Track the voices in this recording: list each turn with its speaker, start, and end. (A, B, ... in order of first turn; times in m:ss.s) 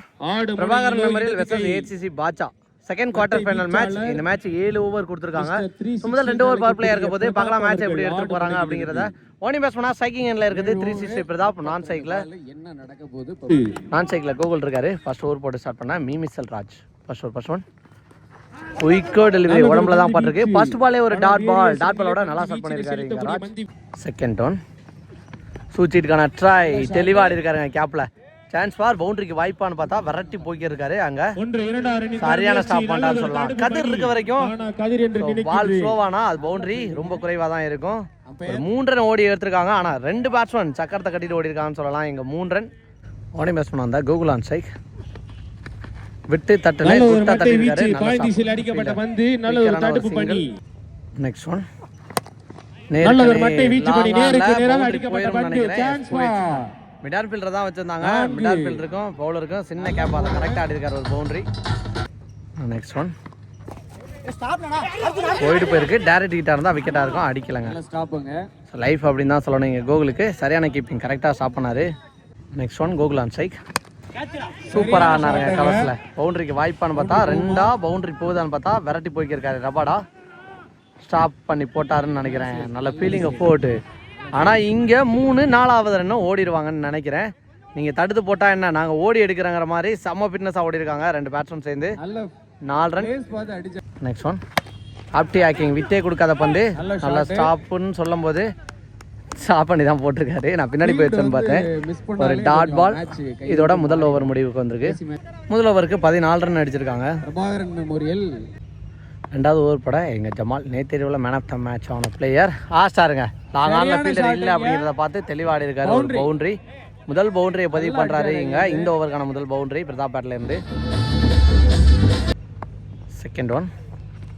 0:00.2-0:01.9 A
0:00.6-0:12.3 B
0:03.2-0:04.0 C
0:03.3-0:03.8 A
0:05.4-0:06.8 C
0:06.4-0:09.1 A
0:10.5-0:13.8 C
0:13.9-0:17.6 B
0:18.8-0:24.6 B
0:19.5-0:23.7 A
0:25.7-0:31.3 B
0:26.8-0:27.4 A
0:31.4-0:36.0 A
0:32.2-0:34.5 B
0:35.2-0:42.7 B
0:36.4-0:37.2 C
0:38.3-0:38.7 C
0:43.4-0:44.7 B
0:46.3-0:50.4 B
0:46.8-0:50.5 A
0:51.2-0:51.6 B
0:52.9-1:01.4 B
0:53.0-0:56.6 A
0:58.0-0:58.8 C
0:59.8-1:00.6 C
1:02.6-1:03.1 B
1:04.5-1:05.3 C
1:05.4-1:07.8 B
1:07.6-1:08.4 C
1:08.7-1:11.9 B
1:12.6-1:13.6 B
1:14.7-1:15.9 C
1:14.7-1:20.0 B
1:16.9-1:17.7 C
1:21.0-1:23.8 B
1:22.2-1:23.6 C
1:24.3-1:24.6 C
1:24.3-1:32.0 B
1:32.0-1:32.3 C
1:32.6-1:33.1 B
1:33.0-1:33.8 C
1:34.0-1:34.4 B
1:35.2-1:38.5 B
1:36.8-1:37.5 C
1:39.4-1:41.7 B
1:40.8-1:45.2 C
1:42.2-1:45.0 B
1:45.5-1:47.1 B
1:47.2-1:48.3 C
1:49.3-1:56.6 B
1:53.6-1:54.9 C
1:55.8-1:56.3 C
1:57.1-2:00.6 B
1:57.7-1:58.9 C
2:03.2-2:03.7 B